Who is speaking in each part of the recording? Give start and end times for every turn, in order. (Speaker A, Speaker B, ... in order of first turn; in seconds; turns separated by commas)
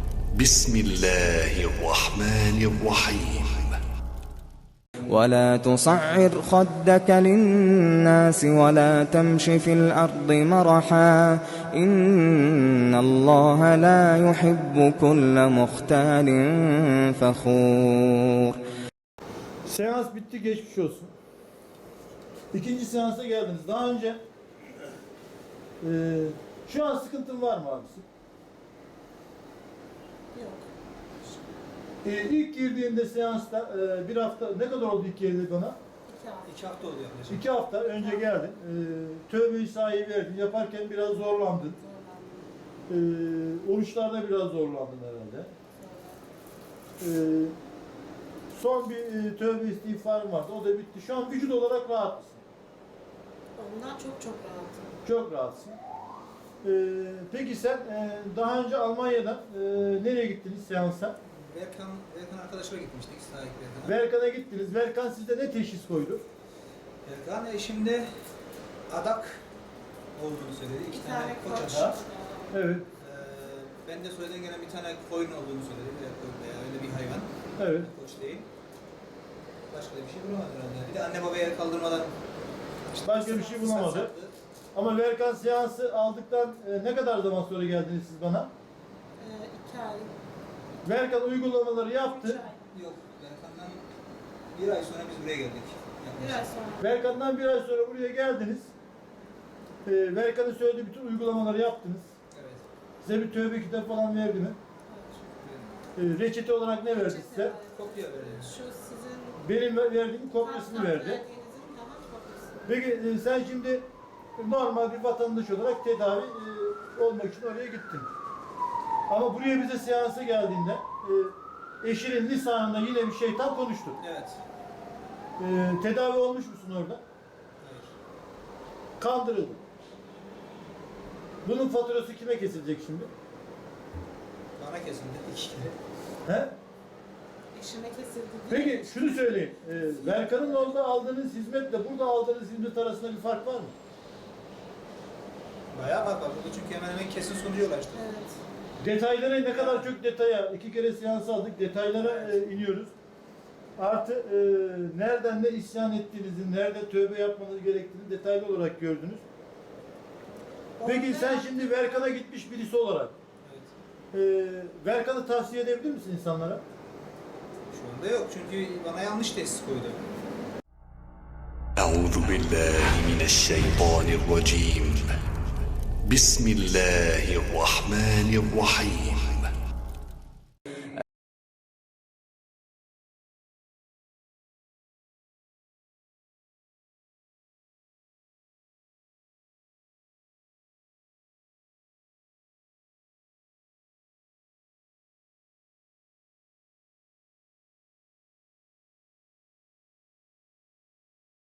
Speaker A: 0.3-3.8, Speaker B: 5.1-18.6, Speaker C: 19.7-21.1, Speaker C: 22.5-24.2, Speaker C: 25.8-28.1, Speaker D: 30.3-30.7, Speaker C: 32.0-35.8, Speaker D: 36.1-36.5, Speaker E: 36.5-37.5, Speaker C: 37.3-41.8, Speaker D: 37.9-38.3, Speaker D: 41.7-42.5, Speaker C: 42.9-45.5, Speaker D: 45.8-46.2, Speaker C: 47.0-47.6, Speaker C: 48.5-52.4, Speaker D: 53.6-54.9, Speaker C: 55.0-55.8, Speaker C: 56.6-61.2, Speaker E: 61.3-64.0, Speaker C: 63.9-66.2, Speaker E: 67.0-68.1, Speaker E: 68.9-69.4, Speaker E: 70.2-72.0, Speaker D: 70.9-72.5, Speaker C: 72.5-72.9, Speaker E: 73.0-78.5, Speaker C: 77.6-77.9, Speaker E: 79.7-82.1, Speaker E: 82.9-84.3, Speaker C: 83.0-84.1, Speaker C: 84.7-88.5, Speaker D: 89.2-90.1, Speaker C: 90.8-92.4, Speaker D: 92.0-92.7, Speaker E: 92.7-93.8, Speaker E: 94.5-96.5, Speaker D: 96.2-96.9, Speaker C: 96.8-98.7, Speaker C: 99.8-102.1, Speaker E: 102.3-102.6, Speaker C: 103.0-104.6, Speaker D: 104.9-105.3, Speaker E: 105.4-105.8, Speaker C: 106.0-107.5, Speaker D: 106.9-109.4, Speaker E: 107.7-108.6, Speaker C: 109.4-111.2, Speaker D: 110.3-112.9, Speaker C: 112.7-118.1, Speaker C: 119.1-124.0, Speaker E: 124.0-124.4, Speaker C: 125.4-127.0, Speaker E: 127.6-127.9, Speaker C: 129.0-129.6, Speaker C: 131.4-133.1, Speaker E: 134.6-135.8, Speaker C: 136.2-136.6, Speaker D: 137.5-140.7, Speaker C: 138.5-143.7, Speaker E: 145.7-148.1, Speaker D: 147.9-148.4, Speaker C: 148.8-152.9, Speaker E: 149.5-149.9, Speaker E: 151.9-152.4, Speaker C: 153.8-159.2, Speaker D: 160.8-162.2, Speaker C: 160.8-163.1, Speaker E: 163.4-163.7, Speaker C: 164.1-166.6, Speaker E: 167.7-170.1, Speaker A: 171.8-175.2, Speaker A: 176.0-179.5